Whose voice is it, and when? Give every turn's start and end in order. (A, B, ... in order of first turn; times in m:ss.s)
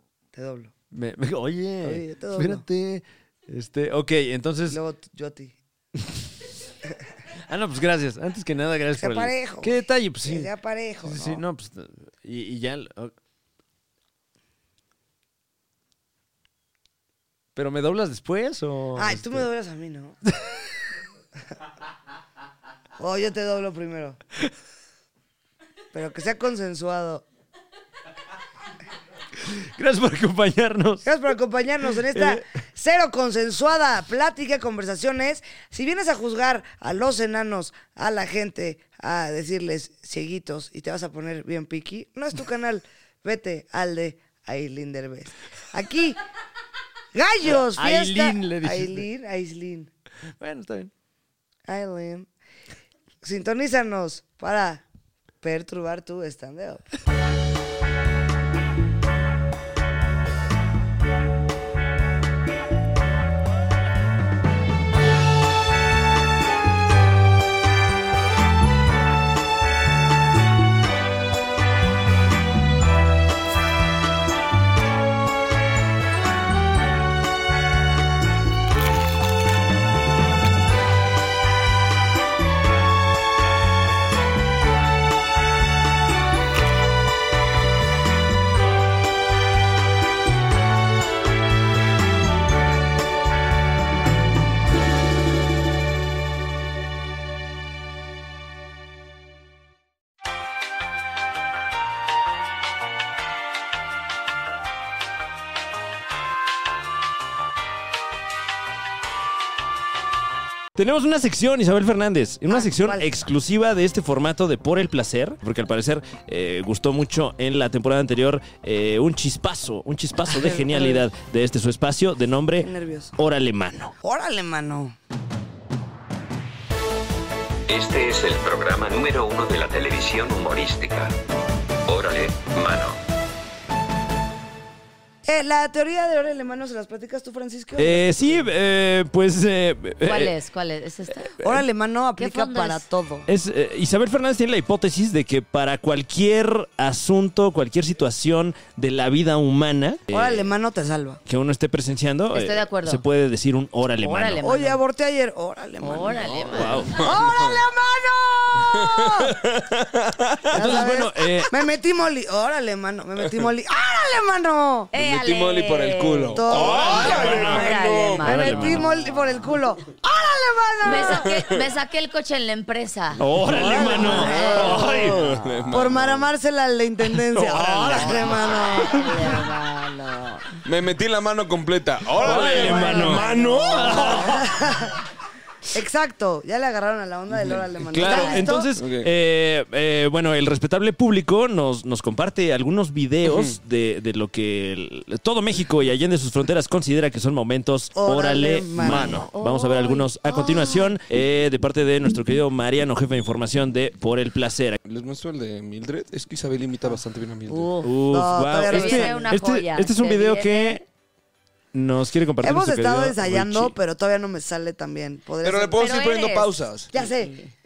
0:00.3-0:00.7 A
0:00.9-0:04.8 B
0:01.8-0:02.6 A
0:04.7-0:05.6 A
0:07.5-0:10.5 B
0:08.9-0:11.4 A
0:11.0-0:13.1 B
0:17.6-0:19.5 B
0:19.0-0:20.2 A
0:23.0-0:24.2 A
0:25.9-0:27.2 A
0:29.4-0:31.0 B
0:31.0-0:46.2 A
0:32.1-0:32.4 B
0:47.2-0:49.9 A
0:47.4-0:49.1 B
0:50.4-0:50.9 B
0:51.7-0:52.3 A
0:53.2-0:54.8 A
0:55.4-0:56.8 A
1:50.8-2:03.9 B
1:52.5-1:53.2 A
2:00.3-2:01.1 A
2:02.6-2:03.1 A
2:04.0-2:05.0 A
2:07.7-2:11.2 C
2:11.9-2:13.0 C
2:15.2-2:18.5 A
2:17.8-2:20.4 B
2:20.0-2:21.3 D
2:21.4-2:23.3 A
2:22.2-2:22.9 D
2:23.3-2:30.5 B
2:30.1-2:31.2 A
2:31.3-2:34.4 B
2:32.3-2:33.0 D
2:34.0-2:34.8 D
2:34.4-2:39.4 A
2:35.8-2:36.8 D
2:36.5-2:37.0 B
2:36.9-2:37.6 E
2:38.8-2:40.8 E
2:40.5-2:44.9 A
2:40.5-2:41.5 B
2:44.9-2:48.9 D
2:44.9-2:48.3 E
2:46.3-2:51.3 A
2:46.6-2:48.9 B
2:50.8-2:55.3 D
2:51.1-2:51.6 E
2:53.2-2:55.2 B
2:53.5-2:59.3 A
2:53.7-2:56.3 E
2:57.3-2:59.1 B
2:58.9-3:00.5 D
3:00.6-3:04.4 E
3:02.2-3:04.5 B
3:02.3-3:04.2 D
3:02.5-3:05.0 A
3:05.7-3:08.7 A
3:07.3-3:09.1 E
3:07.9-3:24.8 B
3:08.0-3:08.5 D
3:13.2-3:13.6 E
3:18.0-3:19.3 A
3:18.9-3:20.9 D
3:24.8-3:27.7 E
3:27.5-3:27.9 D
3:27.8-3:30.8 B
3:28.1-3:29.3 A
3:28.7-3:30.8 D
3:31.7-3:33.8 B
3:32.4-3:35.9 A
3:35.4-3:36.9 E
3:35.8-3:37.5 D
3:36.9-3:37.3 A